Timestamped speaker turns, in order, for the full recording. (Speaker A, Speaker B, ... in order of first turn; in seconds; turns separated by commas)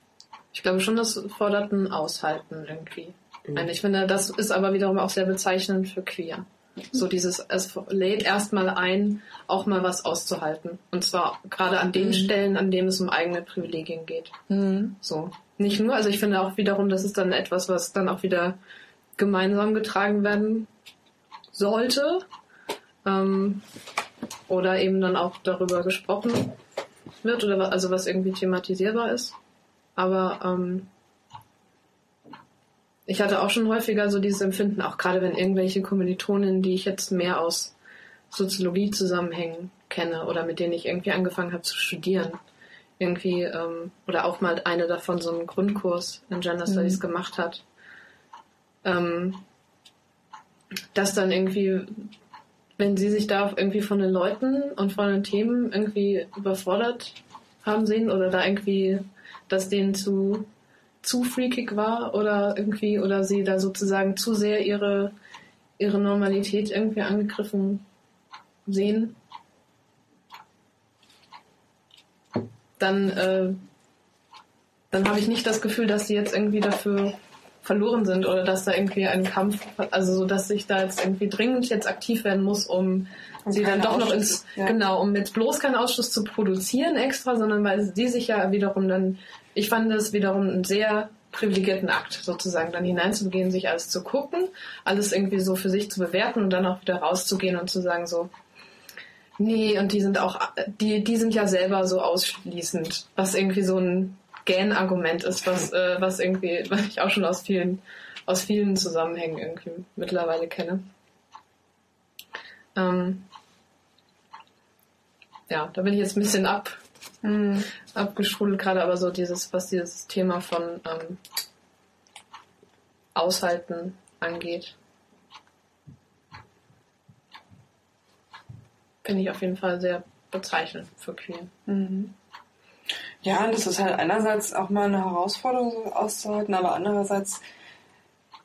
Speaker A: 0.5-14.4, Speaker B: 12.0-12.3, Speaker B: 14.5-15.0, Speaker A: 15.0-18.6, Speaker A: 19.2-20.7, Speaker A: 21.5-22.3, Speaker A: 23.0-23.6, Speaker A: 24.5-26.6, Speaker A: 27.2-29.4, Speaker A: 30.0-30.9, Speaker A: 33.1-37.7, Speaker A: 38.3-42.4, Speaker A: 43.0-47.6, Speaker B: 46.7-47.0, Speaker A: 48.8-49.4, Speaker A: 50.9-52.1, Speaker A: 52.8-60.5, Speaker A: 61.0-65.1, Speaker A: 65.8-67.9, Speaker A: 68.7-69.2, Speaker A: 72.8-73.6, Speaker A: 74.9-98.3, Speaker B: 83.5-84.8, Speaker A: 99.4-110.8, Speaker A: 112.8-113.3, Speaker A: 115.5-116.8, Speaker B: 117.2-117.7, Speaker A: 117.9-121.2, Speaker A: 123.2-124.8, Speaker A: 129.0-131.5, Speaker B: 131.7-132.1, Speaker B: 133.2-137.4